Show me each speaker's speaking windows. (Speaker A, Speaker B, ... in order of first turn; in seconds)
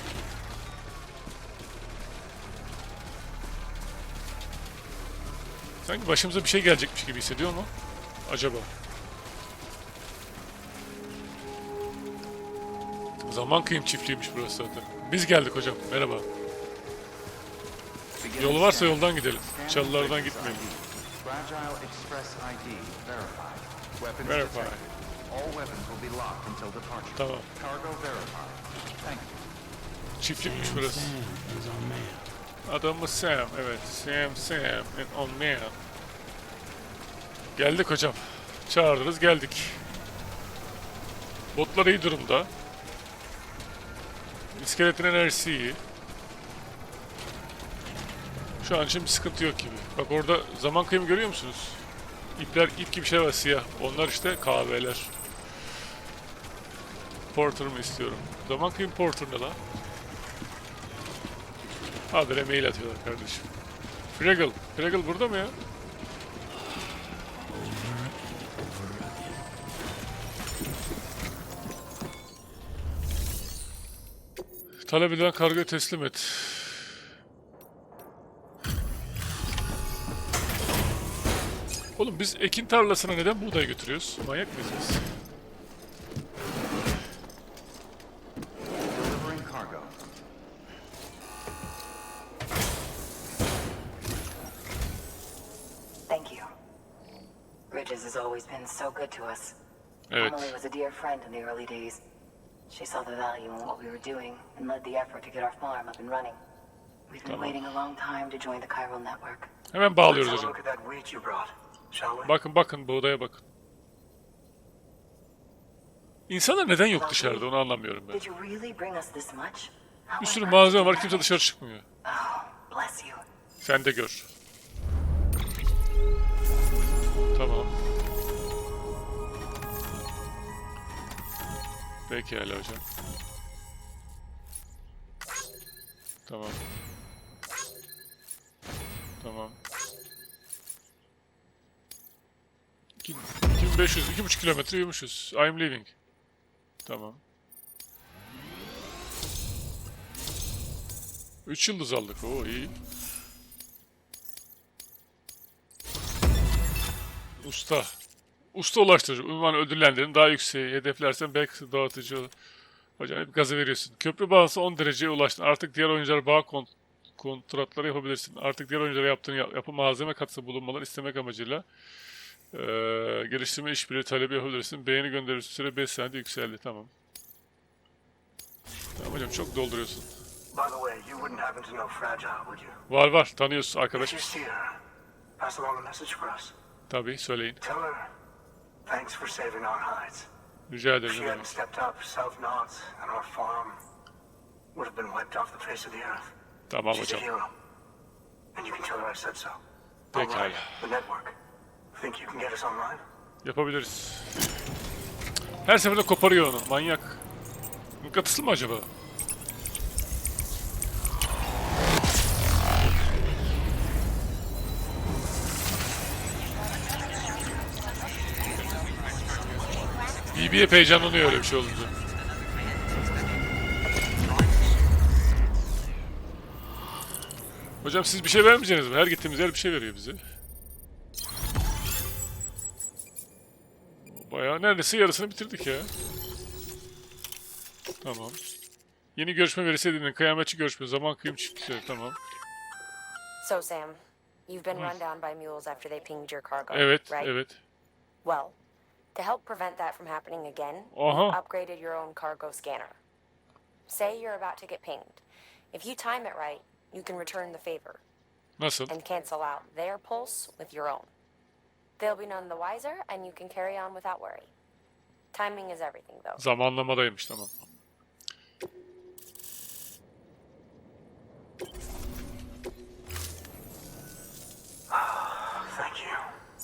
Speaker A: 5.8-7.7, 8.2-8.7, 13.2-16.2, 18.4-20.6, 24.2-24.8, 27.1-27.5, 30.2-31.2, 32.6-35.8, 37.5-39.8, 41.5-42.5, 44.5-45.8, 48.6-51.8, 52.4-55.1, 57.3-59.6, 62.1-63.5, 64.2-65.5, 74.8-76.9, 82.0-85.0, 100.1-100.5, 107.2-107.6, 109.7-110.5, 112.2-113.4, 116.3-118.2, 120.2-121.8, 123.6-124.3, 127.3-127.7, 132.1-132.8, 136.3-136.6, 139.2-139.6, 143.0-145.9, 146.8-147.2, 151.4-152.7, 157.4-157.9, 158.5-162.3, 163.0-171.6, 172.5-176.9, 178.9-180.1, 182.9-184.4, 186.9-187.6, 190.7-191.5, 196.7-197.2, 200.1-200.9, 203.4-204.5, 205.6-207.2, 208.0-208.9, 220.3-221.9, 227.8-230.2, 233.9-235.9, 238.0-238.4, 239.2-242.2, 246.7-247.6, 250.9-251.4, 258.6-258.9, 266.4-267.5
Speaker B: 18.2-24.6, 25.3-29.4, 88.9-89.9
Speaker C: 96.1-96.5, 97.7-99.5, 100.2-102.0, 102.7-106.4, 107.1-109.5, 116.9-117.5, 118.1-121.4, 122.0-123.2
Speaker D: 110.0-112.3, 180.5-182.7, 183.9-184.8, 185.4-186.5, 187.6-188.1, 188.8-190.3, 191.1-193.8, 194.7-196.3, 196.9-197.5, 198.5-199.6, 200.1-201.4, 201.9-203.0, 274.9-276.2
Speaker E: 243.4-247.3, 248.2-248.6, 249.1-253.0, 253.9-258.0, 258.9-261.1, 262.0-264.5, 265.3-266.4